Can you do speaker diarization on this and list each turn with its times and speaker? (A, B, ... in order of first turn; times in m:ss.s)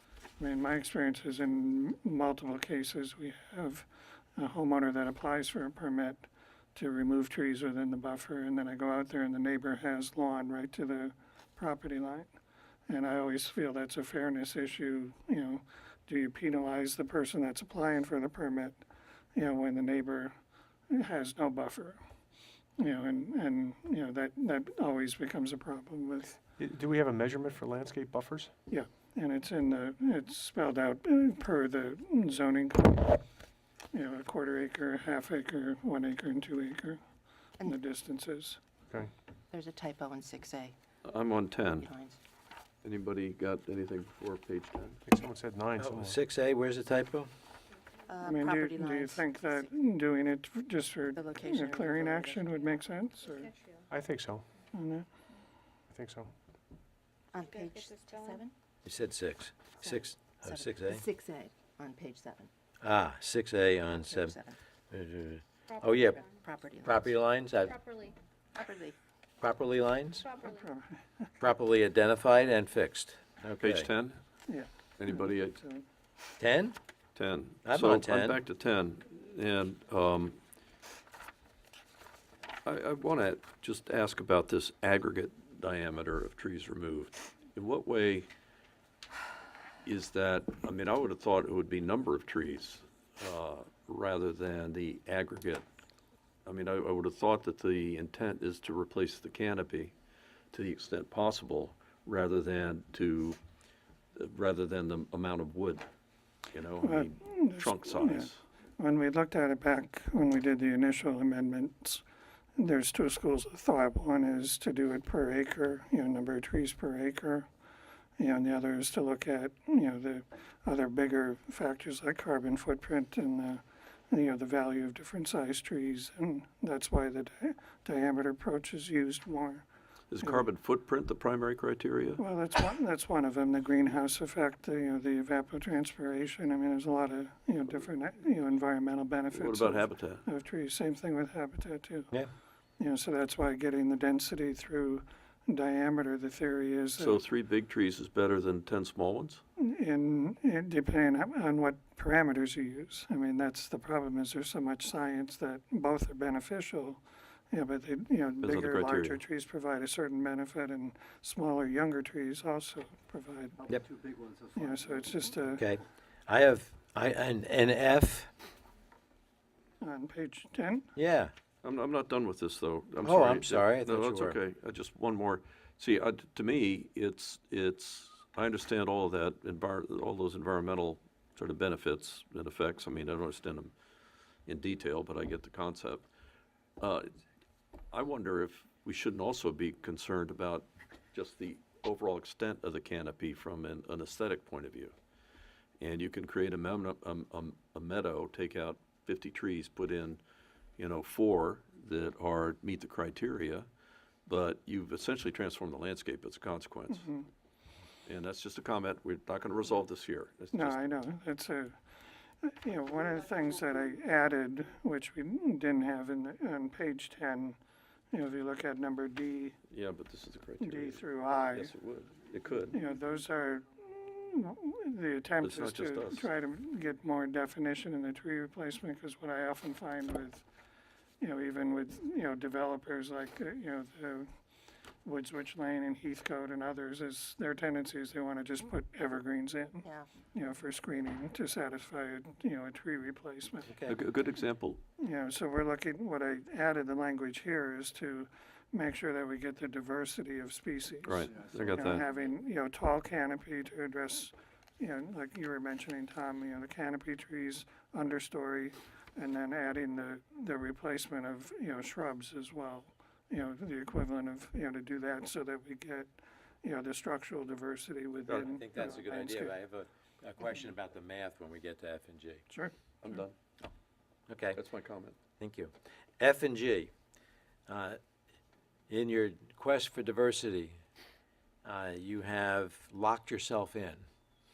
0:00.4-0:12.3 A
0:12.9-0:18.8 A
0:19.3-0:20.4 A
0:20.9-0:22.0 A
0:22.8-0:26.4 A
0:26.6-0:28.5 B
0:28.7-0:33.2 A
0:33.9-0:37.0 A
0:37.6-0:38.6 A
0:39.5-0:40.8 C
0:41.0-0:41.9 D
0:41.7-0:42.2 C
0:42.8-0:45.0 D
0:45.0-0:46.2 B
0:45.8-0:47.3 E
0:48.1-0:49.7 C
0:48.2-0:53.5 A
0:51.1-0:52.8 C
0:53.2-0:53.8 F
0:53.9-0:54.4 B
0:54.7-0:55.0 A
0:55.9-0:56.3 B
0:57.3-0:58.5 C
0:57.5-0:58.4 F
0:58.8-1:01.0 E
0:59.8-1:02.5 C
1:02.8-1:04.4 E
1:04.1-1:04.6 C
1:04.9-1:06.2 E
1:05.7-1:06.4 F
1:06.0-1:07.1 C
1:06.8-1:07.8 E
1:07.6-1:08.1 F
1:08.5-1:09.0 C
1:09.4-1:10.3 E
1:10.2-1:10.7 F
1:10.4-1:11.3 A
1:11.4-1:13.9 E
1:13.6-1:14.2 D
1:14.5-1:15.8 A
1:15.0-1:15.6 D
1:16.4-1:16.8 E
1:17.2-1:20.4 D
1:17.6-1:18.4 E
1:22.6-1:28.3 D
1:29.8-1:35.6 D
1:36.4-1:39.9 D
1:40.5-1:43.4 D
1:44.2-1:45.8 D
1:46.5-1:48.4 D
1:46.8-1:52.0 A
1:52.6-1:57.5 A
1:58.2-2:09.6 A
2:10.1-2:12.2 D
2:10.2-2:10.5 A
2:12.2-2:22.1 A
2:19.3-2:20.2 D
2:22.8-2:27.2 A
2:27.0-2:29.4 D
2:29.6-2:43.7 A
2:38.4-2:39.2 D
2:44.5-2:45.7 A
2:45.6-2:48.3 E
2:49.8-2:50.9 A
2:51.0-2:51.3 E
2:51.6-3:03.7 D
2:53.0-2:54.4 E
3:04.4-3:06.0 D
3:06.8-3:07.0 D
3:07.9-3:14.9 D
3:15.8-3:20.2 D
3:20.8-3:23.7 D
3:24.2-3:27.1 D
3:26.9-3:27.3 A
3:28.0-3:30.8 D
3:30.5-3:31.8 A
3:32.4-3:37.6 A
3:38.1-3:39.6 A
3:39.7-3:42.8 D
3:40.6-3:41.7 A
3:42.7-3:50.4 A
3:45.4-3:46.3 D
3:51.2-3:54.3 A
3:55.0-4:03.7 A
4:03.7-4:04.0 E
4:03.9-4:04.8 D
4:05.0-4:29.6 A
4:11.0-4:12.0 D
4:28.3-4:28.5 D
4:28.4-4:32.4 E
4:33.0-4:33.3 D
4:34.3-4:34.6 E
4:34.5-4:35.2 D
4:35.4-4:36.9 E
4:37.7-4:38.0 E
4:38.9-4:40.8 E
4:41.6-4:44.0 E